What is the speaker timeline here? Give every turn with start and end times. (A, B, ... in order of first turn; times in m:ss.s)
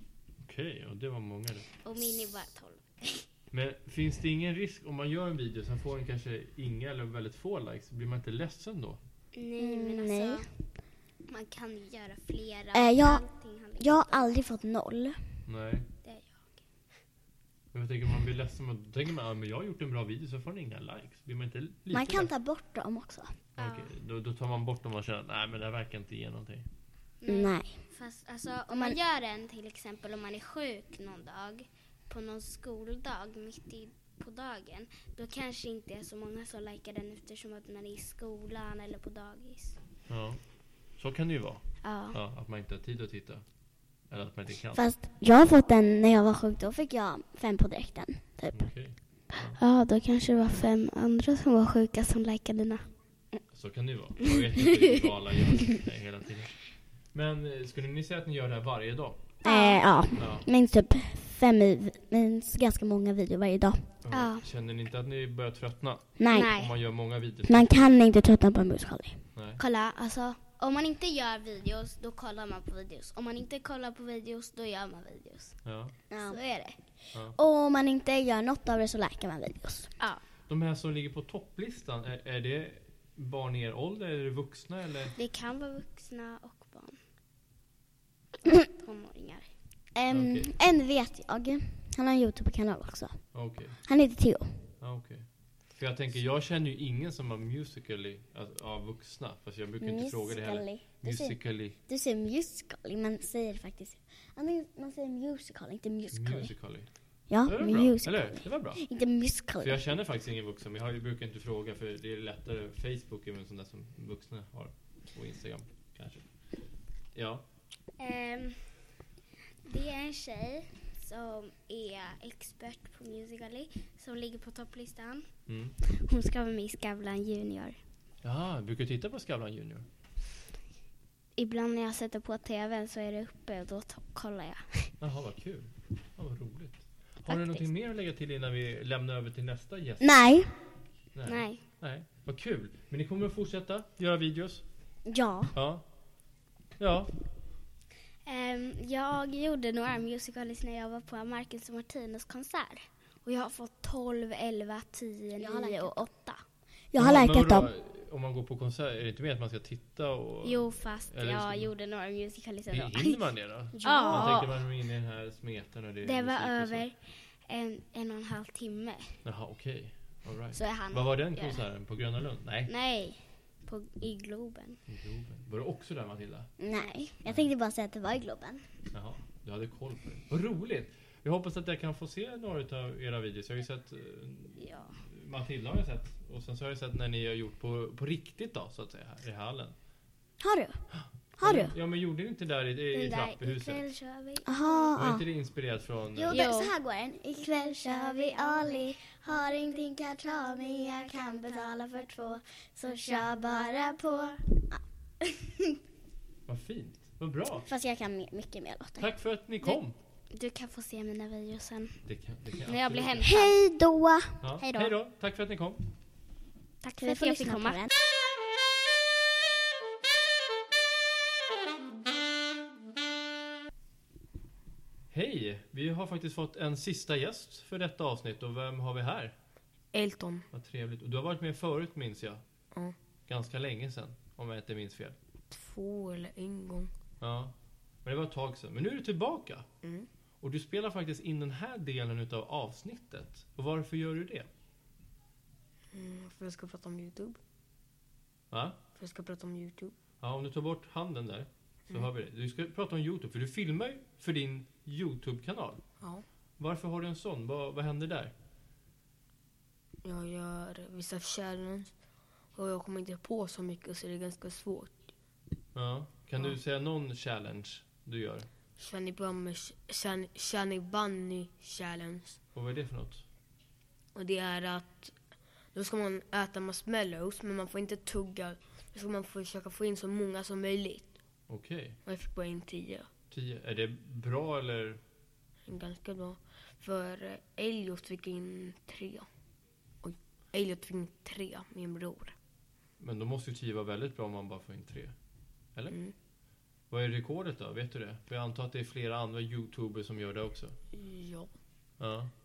0:00.4-0:01.7 A
0:01.8-0:03.1 B
0:03.5-0:09.0 A
0:09.4-0:10.4 B
0:09.6-0:10.4 C
0:11.3-0:14.2 B
0:12.7-0:13.2 C
0:13.8-0:15.4 C
0:15.4-0:15.9 A
0:16.0-0:16.3 B
0:17.7-0:22.3 A
0:21.9-0:23.4 C
0:23.6-0:26.7 A
0:23.6-0:23.8 B
0:27.2-0:39.7 B
0:27.3-0:27.8 C
0:28.7-0:29.0 C
0:40.1-0:40.4 A
0:41.0-0:43.4 A
0:41.8-0:42.1 B
0:44.1-0:44.8 A
0:44.7-0:48.7 C
0:48.5-0:49.6 A
0:49.6-0:52.8 B
0:53.5-0:59.3 A
0:59.4-1:03.9 C
0:59.4-0:59.8 B
1:00.2-1:00.5 A
1:04.0-1:07.9 A
1:04.1-1:04.4 B
1:06.2-1:06.5 C
1:06.3-1:06.7 B
1:07.4-1:09.2 C
1:09.3-1:09.6 A
1:09.6-1:15.5 B
1:15.6-1:15.9 A
1:16.1-1:16.4 C
1:16.2-1:16.7 B
1:17.3-1:19.9 C
1:20.5-1:25.1 A
1:25.2-1:27.0 B
1:28.6-1:29.4 B
1:29.9-1:33.3 C
1:30.1-1:30.5 A
1:33.3-1:33.8 A
1:33.8-1:34.7 C
1:34.8-1:41.8 A
1:39.8-1:46.5 C
1:46.1-1:46.9 A
1:47.3-1:49.8 C
1:47.4-1:48.8 A
1:49.6-1:56.3 A
1:57.1-1:57.4 A
1:58.0-1:58.7 B
1:59.7-2:05.2 B
2:05.5-2:05.8 A
2:05.9-2:07.8 B
2:08.2-2:09.8 A
2:11.4-2:14.9 B
2:15.0-2:20.2 A
2:17.3-2:17.6 B
2:20.0-2:20.5 C
2:21.1-2:24.6 A
2:21.3-2:21.6 B
2:25.0-2:25.5 C
2:25.5-2:25.8 A
2:26.8-2:27.1 A
2:28.2-2:36.4 B
2:35.4-2:36.0 C
2:36.9-2:37.7 C
2:37.0-2:41.7 A
2:40.4-2:43.3 B
2:42.7-2:46.8 A
2:43.7-2:44.3 C
2:43.8-2:44.6 B
2:46.0-2:49.1 B
2:49.2-2:52.7 A
2:50.6-2:51.6 B
2:52.7-2:54.8 B
2:54.9-2:56.5 A
2:56.6-2:58.6 C
2:58.9-3:09.7 A
3:04.6-3:04.9 B
3:10.4-3:10.8 C
3:11.0-3:13.8 A
3:11.4-3:11.7 C
3:12.9-3:14.8 B
3:14.4-3:15.2 C
3:14.9-3:16.4 A
3:16.2-3:24.8 C
3:16.3-3:16.7 B
3:26.5-3:27.7 A
3:27.6-3:29.1 C
3:29.0-3:30.0 A
3:30.3-3:32.0 B
3:32.1-3:33.3 A
3:32.7-3:33.5 B
3:33.2-3:34.4 C
3:34.4-3:35.9 A
3:34.6-3:34.9 B
3:36.8-3:37.8 B
3:37.0-3:37.9 C
3:45.1-3:49.3 A
3:49.9-3:50.5 D
3:50.5-3:52.4 A
3:53.3-3:55.2 A
3:55.5-3:56.9 D
3:57.2-3:59.7 A
4:00.4-4:04.5 A
4:05.9-4:07.4 D
4:08.5-4:08.8 A
4:08.9-4:09.9 D
4:10.2-4:15.8 A
4:16.6-4:18.3 A
4:20.0-4:21.9 D
4:22.5-4:25.1 D
4:25.7-4:28.5 A
4:28.8-4:32.4 D
4:32.5-4:33.2 A
4:34.1-4:35.2 D
4:35.7-4:41.1 D
4:41.5-4:42.0 A
4:42.0-4:43.1 D
4:43.3-4:45.0 A
4:45.7-4:49.3 D
4:50.0-4:52.4 D
4:53.0-4:55.1 A
4:56.9-5:00.8 A
5:00.9-5:01.5 D
5:02.0-5:02.3 A